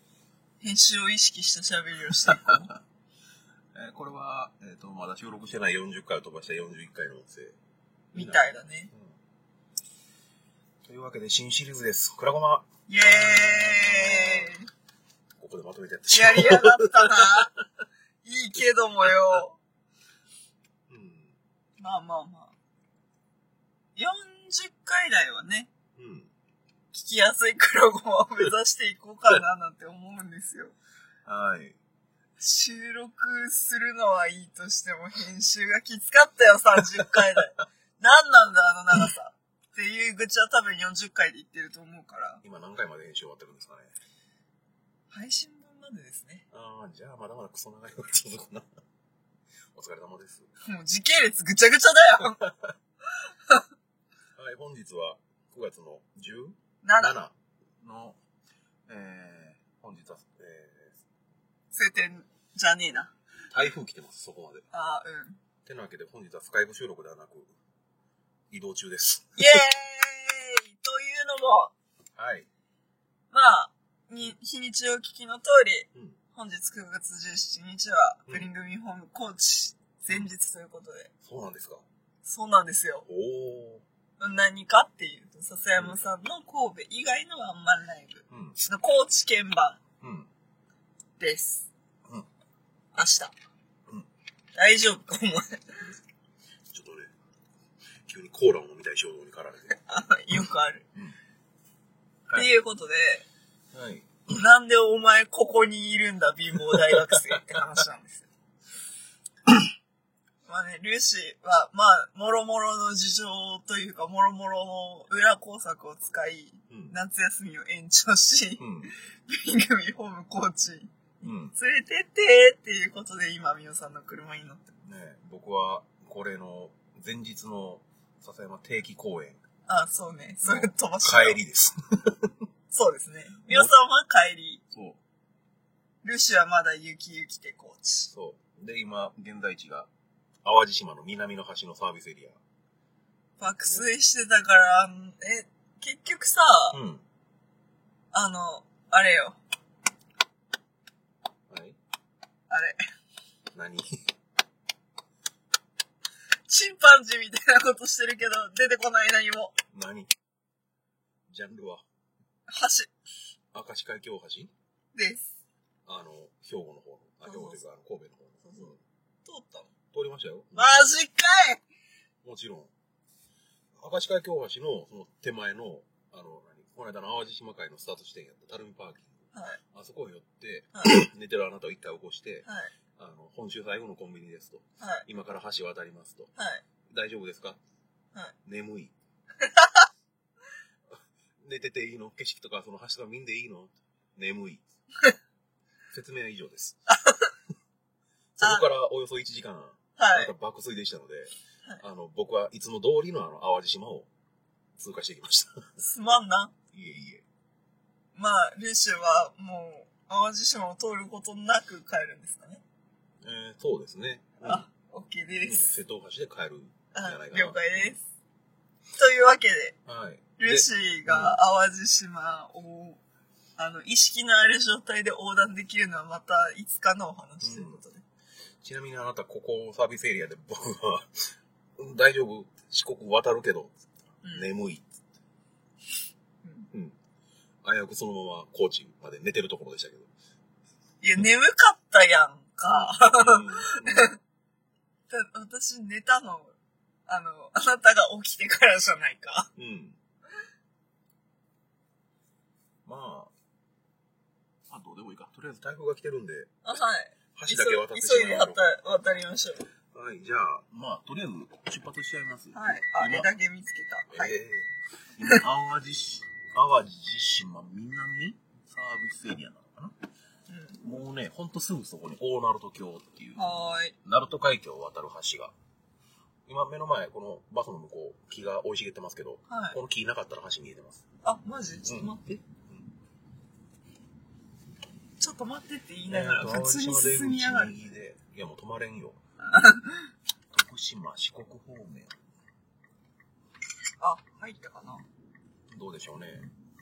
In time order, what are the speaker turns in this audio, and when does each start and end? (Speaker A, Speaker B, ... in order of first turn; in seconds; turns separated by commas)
Speaker A: 0.6-2.7, Speaker B: 3.7-7.5, Speaker A: 8.1-8.9, Speaker B: 8.1-8.4, Speaker B: 10.8-14.5, Speaker A: 12.9-14.7, Speaker B: 15.4-17.5, Speaker A: 16.1-17.5, Speaker A: 18.2-19.6, Speaker B: 20.9-21.3, Speaker A: 21.8-22.5, Speaker A: 24.0-25.7, Speaker B: 26.0-26.3, Speaker A: 26.9-30.8, Speaker B: 31.3-31.8, Speaker A: 32.4-42.4, Speaker B: 42.4-43.9, Speaker A: 45.1-46.5, Speaker B: 46.5-48.7, Speaker B: 49.7-50.5, Speaker A: 50.6-52.5, Speaker B: 54.4-58.2, Speaker A: 56.8-57.1, Speaker B: 58.9-60.9, Speaker A: 61.7-63.1, Speaker B: 63.5-64.7, Speaker A: 64.7-65.4, Speaker B: 65.7-67.5, Speaker B: 68.5-69.6, Speaker A: 69.4-71.7, Speaker B: 72.2-72.5, Speaker A: 73.3-81.1, Speaker B: 81.2-81.8, Speaker A: 82.2-83.1, Speaker B: 83.1-83.8, Speaker A: 84.2-89.8, Speaker B: 88.3-88.6, Speaker B: 90.0-90.3, Speaker A: 91.2-91.7, Speaker A: 93.0-93.3, Speaker A: 94.5-95.8, Speaker B: 96.7-97.1, Speaker B: 98.1-99.8, Speaker A: 99.7-100.9, Speaker A: 102.3-103.2, Speaker B: 103.7-104.3, Speaker A: 104.3-108.3, Speaker B: 106.9-107.4, Speaker A: 110.5-120.9, Speaker B: 118.6-118.9, Speaker B: 121.2-121.5, Speaker A: 121.5-124.7, Speaker B: 124.8-129.4, Speaker A: 129.7-131.4, Speaker B: 130.4-132.3, Speaker A: 132.7-134.6, Speaker B: 134.7-135.0, Speaker A: 136.0-138.1, Speaker B: 138.1-139.9, Speaker B: 140.4-142.4, Speaker A: 143.4-146.8, Speaker B: 146.7-147.0, Speaker A: 148.1-149.4, Speaker B: 151.5-151.8, Speaker A: 152.5-152.8, Speaker B: 153.6-154.0, Speaker A: 156.5-159.6, Speaker B: 159.7-160.1, Speaker B: 161.3-161.8, Speaker A: 162.5-162.9, Speaker B: 163.5-164.5, Speaker A: 164.9-165.3, Speaker B: 165.9-168.8, Speaker A: 167.2-167.6, Speaker A: 168.4-168.7, Speaker A: 169.2-169.7, Speaker B: 169.9-170.9, Speaker A: 170.6-171.6, Speaker B: 172.2-172.7, Speaker B: 173.8-179.1, Speaker A: 179.3-179.6, Speaker B: 179.7-182.5, Speaker A: 182.5-182.7, Speaker B: 183.0-186.3, Speaker A: 184.8-185.1, Speaker A: 186.4-186.6, Speaker B: 186.9-187.6, Speaker B: 188.4-188.9, Speaker B: 191.4-194.6, Speaker B: 195.9-196.8, Speaker A: 196.9-197.2, Speaker B: 198.4-204.1, Speaker A: 198.4-198.7, Speaker A: 200.0-200.3, Speaker B: 204.8-205.7, Speaker A: 205.8-206.5, Speaker B: 206.7-207.2, Speaker A: 208.2-212.6, Speaker B: 213.2-214.7, Speaker A: 214.4-215.7, Speaker B: 215.4-218.0, Speaker A: 216.9-218.0, Speaker A: 219.0-219.8, Speaker B: 219.9-221.4, Speaker A: 220.4-223.0, Speaker A: 223.6-228.0, Speaker B: 227.4-227.8, Speaker B: 228.6-233.7, Speaker B: 234.3-235.0, Speaker B: 237.6-240.1, Speaker A: 241.0-244.2, Speaker B: 242.7-244.1, Speaker A: 245.1-246.5, Speaker A: 247.1-249.5, Speaker B: 249.6-250.0, Speaker B: 252.8-253.3, Speaker B: 254.7-256.5, Speaker A: 256.6-259.7, Speaker B: 257.4-258.6, Speaker B: 259.9-263.3, Speaker A: 262.5-264.4, Speaker B: 264.1-269.9, Speaker A: 270.5-270.8, Speaker B: 270.8-273.5, Speaker A: 273.4-273.9, Speaker B: 274.0-275.5, Speaker B: 276.5-281.0, Speaker A: 279.5-279.8, Speaker A: 281.2-282.4, Speaker B: 281.9-282.1, Speaker A: 285.2-287.7, Speaker B: 286.1-289.2, Speaker A: 289.5-290.0, Speaker B: 290.5-292.1, Speaker A: 294.0-295.0, Speaker B: 295.7-296.5